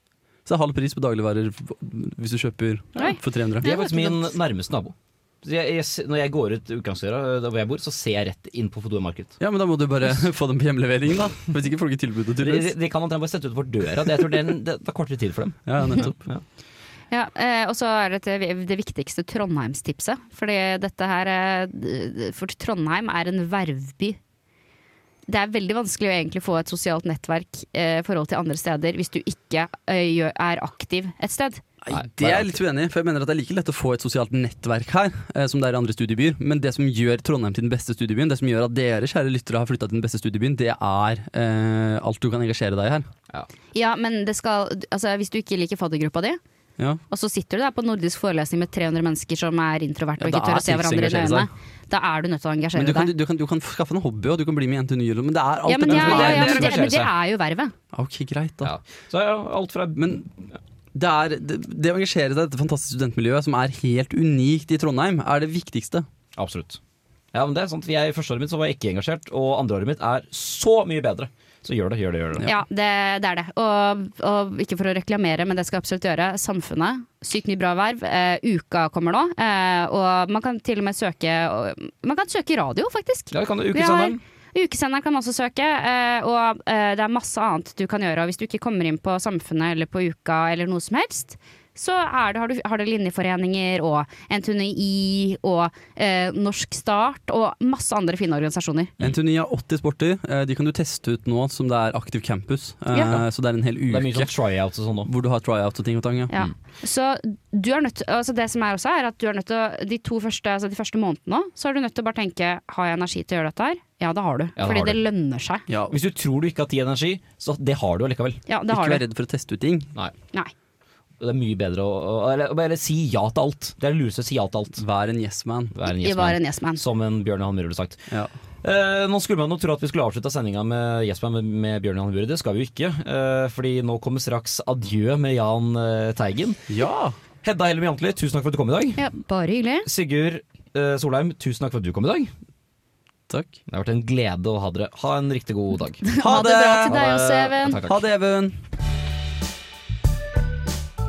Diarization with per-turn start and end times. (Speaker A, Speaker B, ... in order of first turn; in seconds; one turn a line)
Speaker A: 0.5-3.7
Speaker B: 3.0-4.3
Speaker C: 3.6-9.4
Speaker A: 9.4-12.7
Speaker C: 12.4-16.4
Speaker A: 15.7-16.2
Speaker B: 17.1-24.2
Speaker B: 25.3-31.6
Speaker A: 31.8-43.1
Speaker C: 31.9-32.6
Speaker B: 43.7-46.4
Speaker B: 47.1-53.1
Speaker A: 50.2-51.5
Speaker A: 52.8-56.8
Speaker B: 55.6-57.7
Speaker C: 55.9-57.1
Speaker A: 57.9-58.7
Speaker C: 58.6-60.2
Speaker A: 60.0-60.2
Speaker A: 60.9-66.0
Speaker C: 66.3-66.8
Speaker C: 67.3-72.5
Speaker B: 72.4-98.9
Speaker C: 83.3-84.2
Speaker A: 99.0-104.3
Speaker C: 103.9-105.1
Speaker A: 105.0-106.3
Speaker B: 106.3-115.6
Speaker C: 114.6-115.0
Speaker A: 115.7-116.0
Speaker C: 115.9-118.4
Speaker B: 118.5-119.0
Speaker A: 118.7-119.9
Speaker C: 121.2-124.8
Speaker A: 124.8-125.7
Speaker C: 125.7-128.0
Speaker B: 125.9-126.8
Speaker C: 128.6-136.6
Speaker A: 136.7-137.2
Speaker C: 137.4-139.1
Speaker B: 139.0-139.9
Speaker C: 139.8-142.3
Speaker A: 143.3-143.6
Speaker C: 143.7-146.0
Speaker B: 146.0-147.8
Speaker A: 146.2-147.0
Speaker C: 146.8-148.0
Speaker A: 147.8-148.6